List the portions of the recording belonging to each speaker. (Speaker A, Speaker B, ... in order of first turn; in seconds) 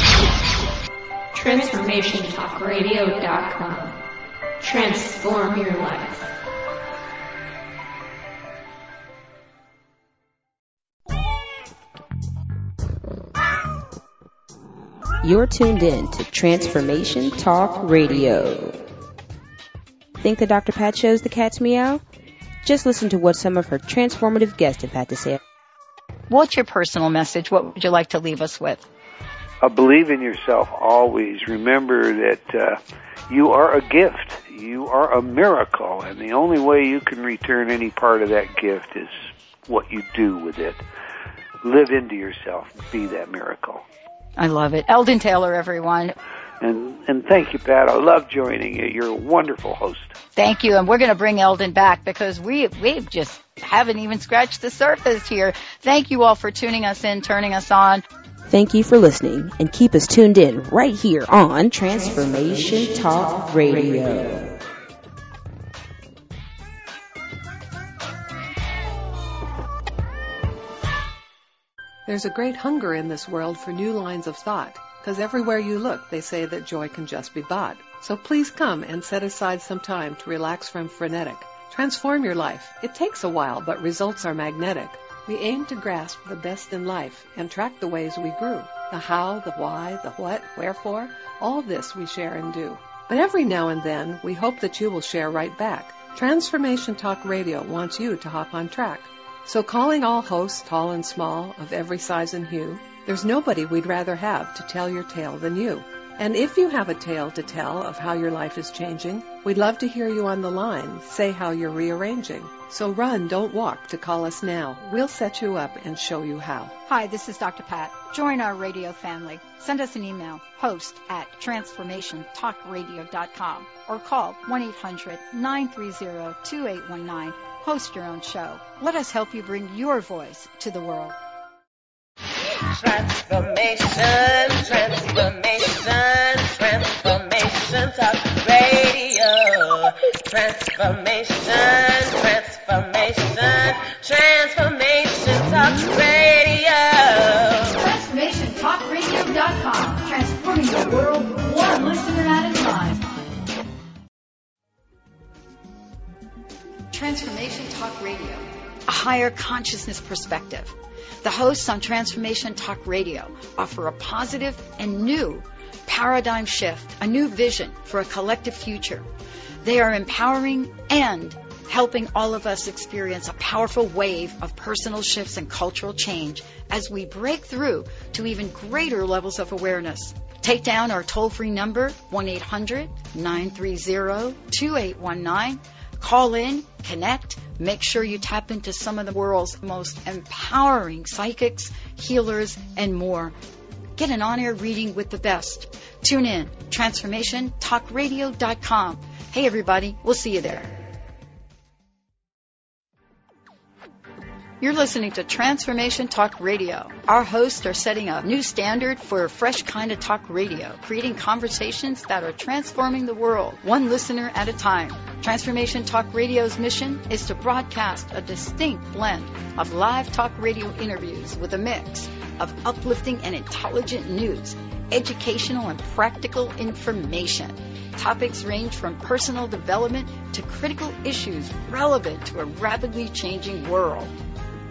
Speaker A: 1.3-4.0, 4.6-6.3
Speaker B: 15.2-18.8, 20.2-22.0, 22.6-25.4, 58.5-64.5
Speaker C: 26.3-28.8, 44.4-46.2, 50.4-58.0, 116.9-131.2, 147.7-153.0, 156.9-169.1, 169.6-193.3, 194.0-200.8, 204.6-234.1
Speaker D: 29.6-32.8, 33.3-40.9, 41.6-43.8, 46.6-50.1
Speaker E: 72.1-116.8
Speaker F: 132.7-147.8